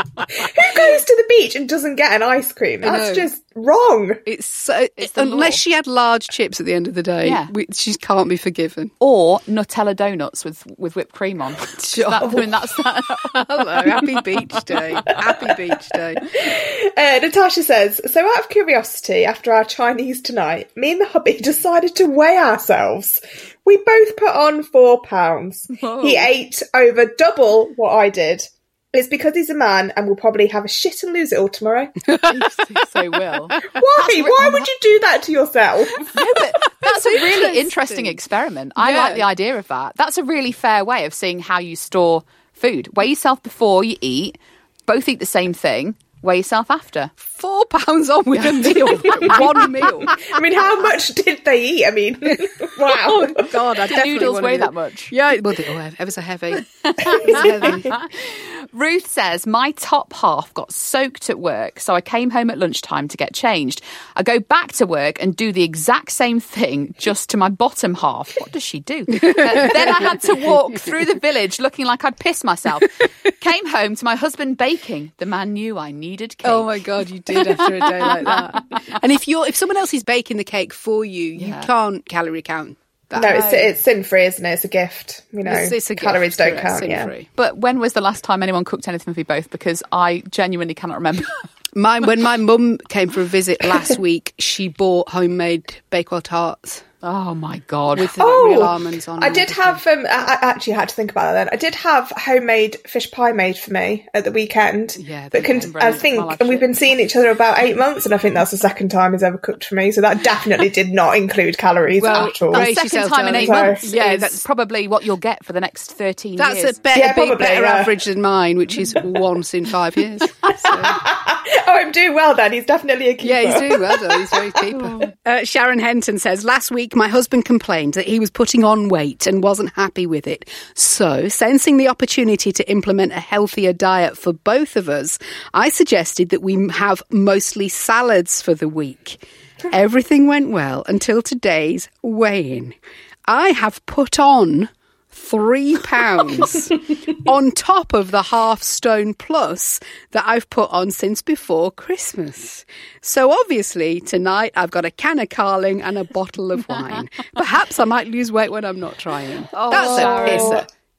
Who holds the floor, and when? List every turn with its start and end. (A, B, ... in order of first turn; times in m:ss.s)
0:00.3-0:04.2 A
0:02.8-0:03.3 B
0:04.2-0:08.9 B
0:05.0-0:05.6 C
0:07.2-0:07.5 C
0:09.0-0:13.8 C
0:11.8-0:12.4 B
0:13.3-0:16.3 B
0:16.3-0:32.0 A
0:25.7-0:26.3 C
0:32.1-0:33.3 B
0:32.3-0:34.7 C
0:33.6-0:36.1 A
0:36.1-0:44.4 C
0:36.8-0:38.2 B
0:38.8-0:39.2 B
0:44.9-0:47.1 C
0:47.2-0:50.2 B
0:48.6-0:49.4 C
0:50.1-0:53.5 A
0:52.8-0:58.0 B
0:53.9-0:55.1 C
0:56.9-1:18.6 C
1:09.2-1:10.2 B
1:16.4-1:23.6 B
1:21.4-1:21.7 C
1:23.1-1:27.1 A
1:23.2-1:23.7 C
1:25.4-1:27.3 B
1:27.4-1:31.4 C
1:31.7-1:36.8 B
1:37.0-1:38.2 C
1:37.9-1:39.8 B
1:38.2-1:52.7 A
1:45.0-1:45.7 B
1:45.5-1:46.7 C
1:52.0-1:54.4 B
1:52.1-1:56.8 C
1:53.3-1:53.8 A
1:56.4-2:01.0 B
1:56.9-1:58.0 A
2:00.7-2:04.5 A
2:03.2-2:40.6 B
2:39.5-2:40.7 C
2:39.7-2:40.6 A